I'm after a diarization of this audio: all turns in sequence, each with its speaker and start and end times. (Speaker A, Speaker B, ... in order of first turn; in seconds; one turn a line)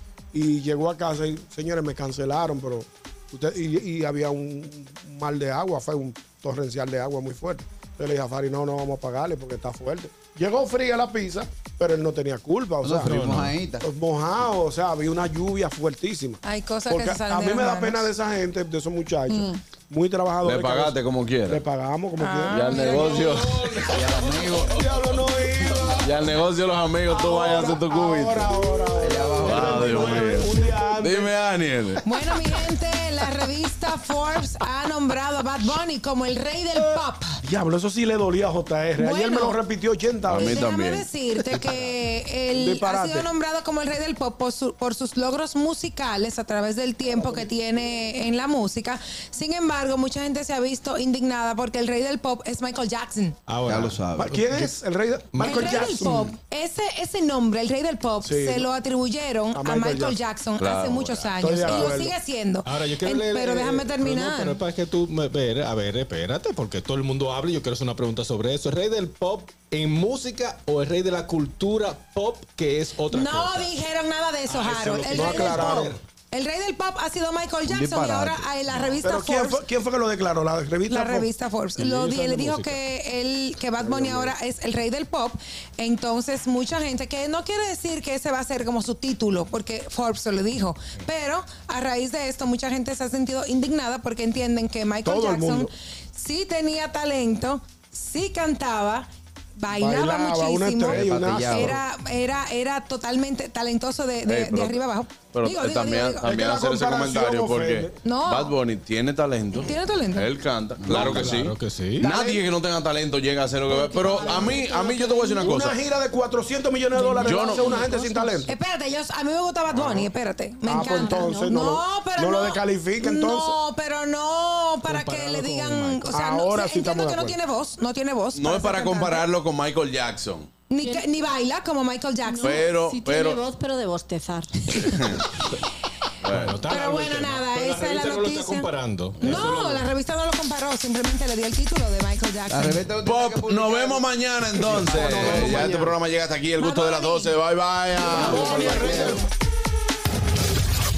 Speaker A: 0.3-13.2
Speaker B: 12.8-13.8
Speaker C: 13.0-13.5
Speaker A: 13.8-23.3
Speaker D: 16.4-18.1
Speaker E: 19.3-19.6
Speaker F: 20.4-21.6
Speaker D: 22.2-23.2
Speaker F: 22.5-23.9
Speaker B: 23.9-24.9
Speaker A: 24.7-26.1
Speaker F: 26.0-28.5
Speaker A: 27.1-31.3
Speaker B: 28.9-30.4
Speaker F: 29.4-32.0
Speaker D: 32.0-37.4
Speaker A: 37.4-40.6
Speaker D: 39.0-39.6
Speaker F: 40.2-41.1
Speaker D: 40.3-53.4
Speaker A: 42.5-43.3
Speaker C: 53.5-54.7
Speaker B: 53.6-54.4
Speaker A: 54.1-56.3
Speaker C: 55.3-55.8
Speaker D: 55.4-64.5
Speaker A: 58.2-58.7
Speaker A: 59.5-60.2
Speaker F: 60.6-62.0
Speaker A: 61.4-62.1
Speaker C: 62.6-73.7
Speaker D: 73.1-79.6
Speaker C: 74.5-76.0
Speaker A: 75.1-76.0
Speaker B: 77.7-78.8
Speaker A: 79.0-81.3
Speaker D: 80.9-99.1
Speaker C: 81.8-82.8
Speaker A: 83.8-84.3
Speaker A: 95.0-95.7
Speaker D: 99.6-106.3
Speaker A: 99.7-101.8
Speaker B: 100.9-101.8
Speaker F: 104.2-104.8
Speaker F: 105.3-115.8
Speaker A: 106.2-107.9
Speaker D: 108.0-108.5
Speaker D: 109.6-110.3
Speaker B: 110.8-111.4
Speaker C: 110.9-112.1
Speaker A: 112.0-112.4
Speaker E: 113.6-115.5
Speaker A: 115.4-118.5
Speaker D: 117.0-117.8
Speaker E: 117.0-118.4
Speaker F: 117.2-117.7
Speaker D: 118.4-129.2
Speaker A: 119.7-120.1
Speaker A: 120.6-123.6
Speaker E: 120.7-121.6
Speaker C: 124.8-126.1
Speaker A: 126.1-127.4
Speaker F: 128.3-130.5
Speaker D: 130.7-132.6
Speaker E: 130.8-131.1
Speaker E: 132.2-134.7
Speaker F: 132.4-133.4
Speaker F: 134.8-135.2
Speaker F: 136.2-136.6
Speaker C: 136.3-139.9
Speaker D: 136.7-138.7
Speaker D: 139.2-142.8
Speaker B: 142.5-145.9
Speaker F: 143.0-149.2
Speaker C: 145.1-145.6
Speaker D: 146.6-147.3
Speaker A: 148.1-149.2
Speaker B: 148.3-149.2